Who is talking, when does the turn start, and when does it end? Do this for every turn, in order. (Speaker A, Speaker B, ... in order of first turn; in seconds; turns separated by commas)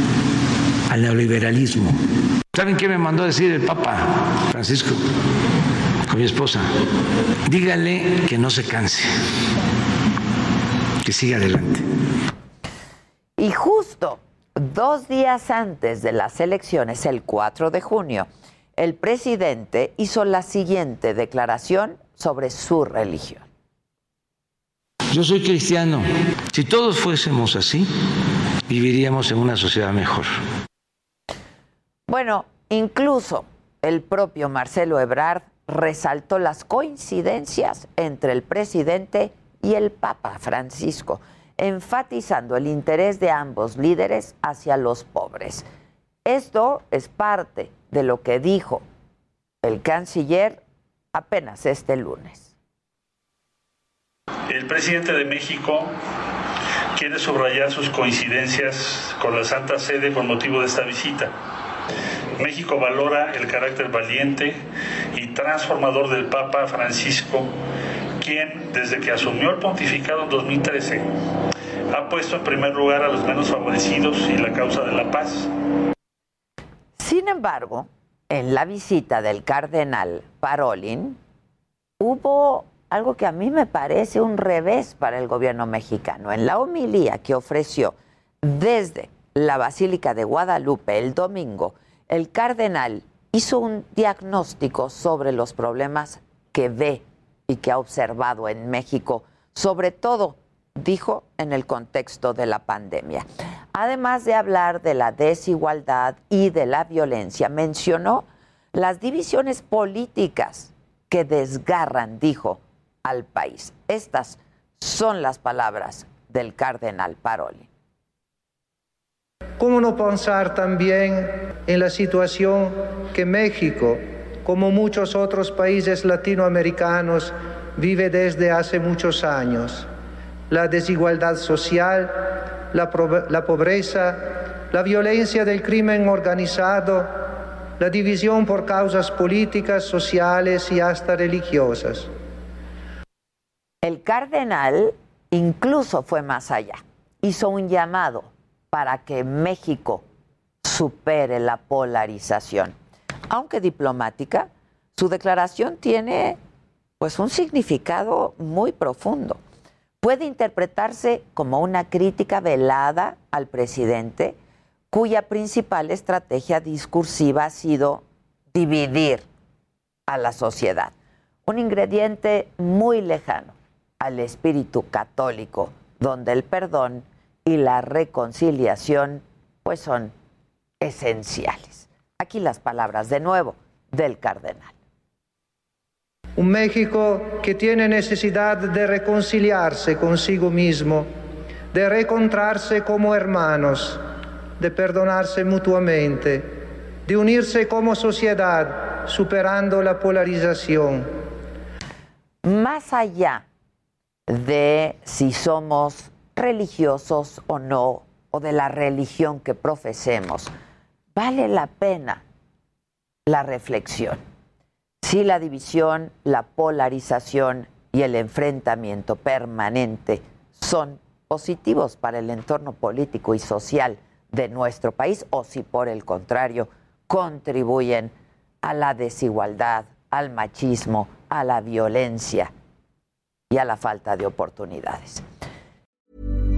Speaker A: 0.9-1.9, Speaker A: 2.5-5.0, Speaker A: 6.1-6.7, Speaker A: 7.5-9.1, Speaker A: 11.0-11.8, Speaker B: 13.4-23.4, Speaker A: 25.1-27.9, Speaker A: 28.7-30.3, Speaker B: 32.1-45.6, Speaker B: 46.2-48.8, Speaker B: 49.6-50.6, Speaker B: 51.1-52.5, Speaker C: 54.5-55.9, Speaker C: 57.0-61.3, Speaker C: 62.4-64.6, Speaker C: 65.1-67.5, Speaker C: 68.2-71.1, Speaker C: 71.9-75.5, Speaker B: 77.0-81.2, Speaker B: 82.0-117.7, Speaker D: 119.6-129.9, Speaker D: 130.5-137.1, Speaker D: 137.8-142.1, Speaker B: 143.8-150.0, Speaker B: 150.6-152.7, Speaker B: 153.3-156.4, Speaker B: 157.0-159.4, Speaker B: 160.0-164.3, Speaker B: 164.9-169.2, Speaker B: 170.1-170.9, Speaker B: 171.4-180.1, Speaker B: 180.8-184.7, Speaker D: 186.4-191.1, Speaker D: 191.7-194.0, Speaker D: 194.6-196.5, Speaker D: 197.1-201.1, Speaker B: 202.4-203.4, Speaker B: 204.3-210.5, Speaker B: 211.2-212.2, Speaker B: 213.3-214.2, Speaker B: 215.0-232.5, Speaker B: 233.5-235.2